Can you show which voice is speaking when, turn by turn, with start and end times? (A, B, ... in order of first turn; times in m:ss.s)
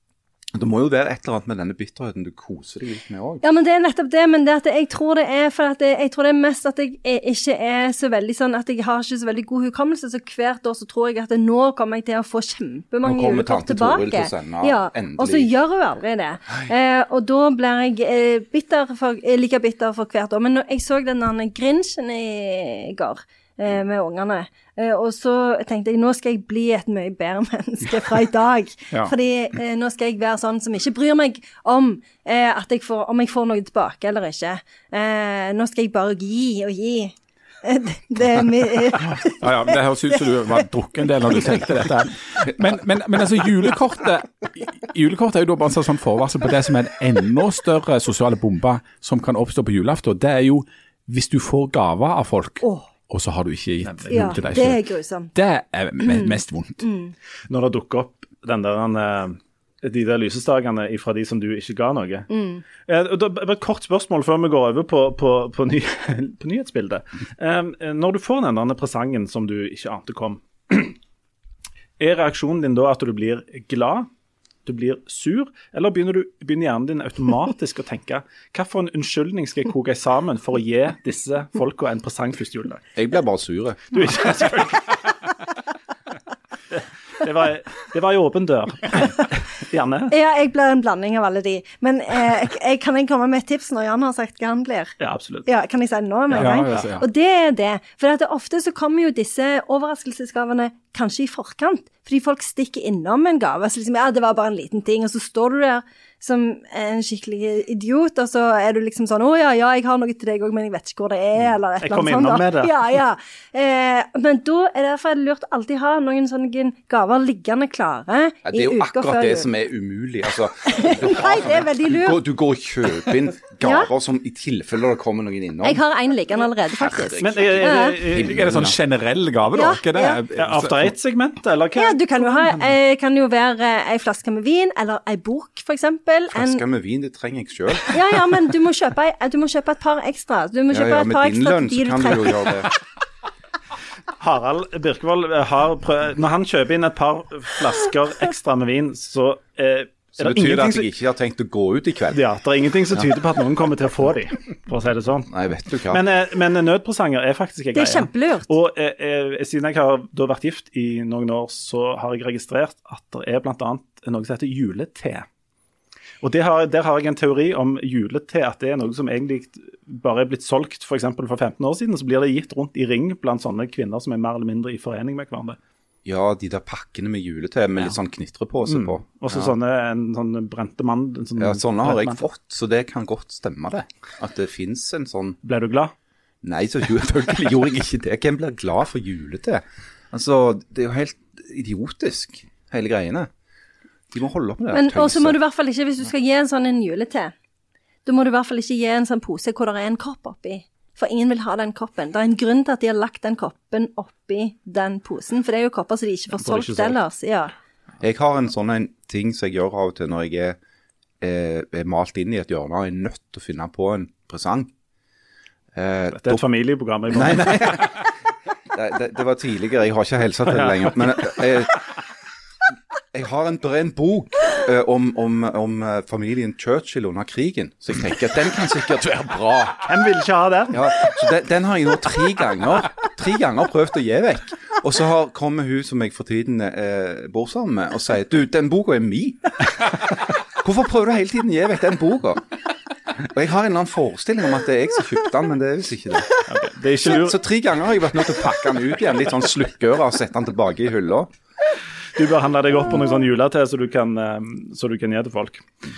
0:00.6-0:03.4 A
0:03.4-0:40.5 B
0:13.0-0:15.5 A
0:39.0-0:54.8 C
0:52.6-0:52.9 B
0:53.9-0:54.4 D
0:54.1-0:55.3 B
0:55.4-0:56.8 C
0:56.0-0:57.1 B
0:57.5-1:02.3 D
1:02.3-1:02.6 B
1:02.8-1:11.0 D
1:12.0-1:14.1 D
1:14.7-1:22.9 D
1:23.0-1:24.0 A
1:23.9-1:25.3 D
1:27.1-1:30.1 D
1:30.1-1:34.9 B
1:35.0-1:35.5 D
1:35.5-1:59.5 B
1:36.3-1:37.1 C
1:36.4-1:36.8 D
1:51.8-1:52.9 D
1:58.5-2:05.8 A
2:00.7-2:02.2 B
2:03.6-2:03.9 B
2:05.6-2:08.0 B
2:06.8-2:08.8 A
2:07.2-2:08.5 D
2:08.1-2:10.9 C
2:09.5-2:10.2 B
2:10.4-2:12.6 D
2:11.8-2:16.6 B
2:16.3-2:18.3 A
2:17.9-2:22.6 B
2:20.7-2:22.8 A
2:24.2-2:30.9 D
2:30.2-2:32.2 A
2:32.1-2:35.3 D
2:35.3-2:36.0 A
2:35.9-2:45.3 D
2:37.7-2:38.5 B
2:46.2-2:55.6 D
2:56.0-2:59.6 A
2:58.6-3:02.2 D
3:01.4-3:05.4 A
3:05.4-3:05.9 D
3:06.4-3:13.3 A
3:14.1-3:15.4 A
3:14.7-3:17.3 B
3:18.0-3:27.5 B
3:26.3-3:27.0 D
3:28.0-3:30.6 A
3:31.2-3:34.7 A
3:35.8-3:36.4 A
3:36.1-3:38.0 D
3:37.1-3:38.1 A
3:38.7-3:41.9 A
3:40.5-3:41.4 D
3:43.1-3:49.9 A
3:49.8-3:51.0 D
3:50.7-4:02.5 A
4:03.2-4:06.4 A
4:06.4-4:07.4 D
4:07.0-4:11.3 A
4:12.2-4:15.7 D